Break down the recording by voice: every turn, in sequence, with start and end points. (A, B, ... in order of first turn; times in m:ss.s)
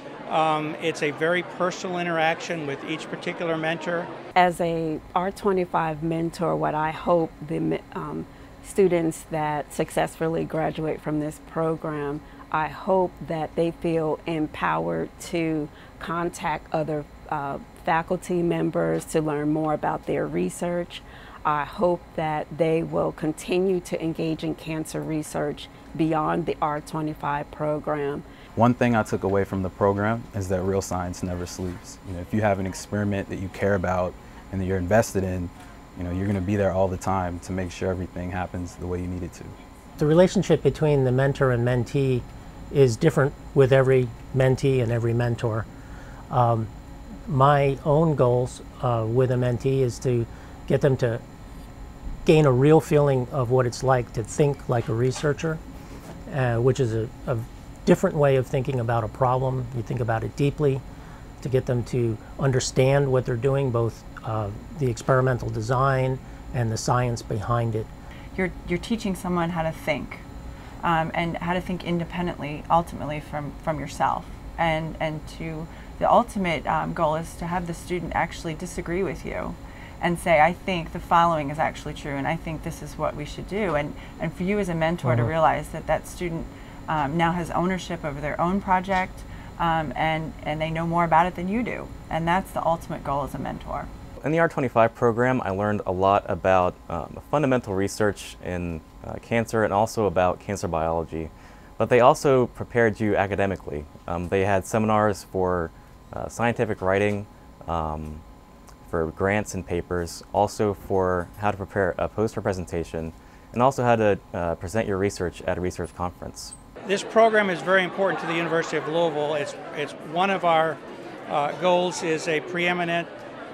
0:00.3-0:04.1 A
0:04.3-0:28.2 B
0:28.5-0:39.6 C
0:40.0-0:45.7 D
0:46.3-0:46.7 D
0:47.3-0:51.2 D
0:52.2-0:55.6 D
0:56.3-1:00.8 D
1:01.4-1:07.9 D
1:08.3-1:10.2 E
1:10.8-1:33.9 E
1:25.0-1:25.3 D
1:34.2-1:48.2 F
1:48.9-1:56.5 F
1:56.8-2:03.1 A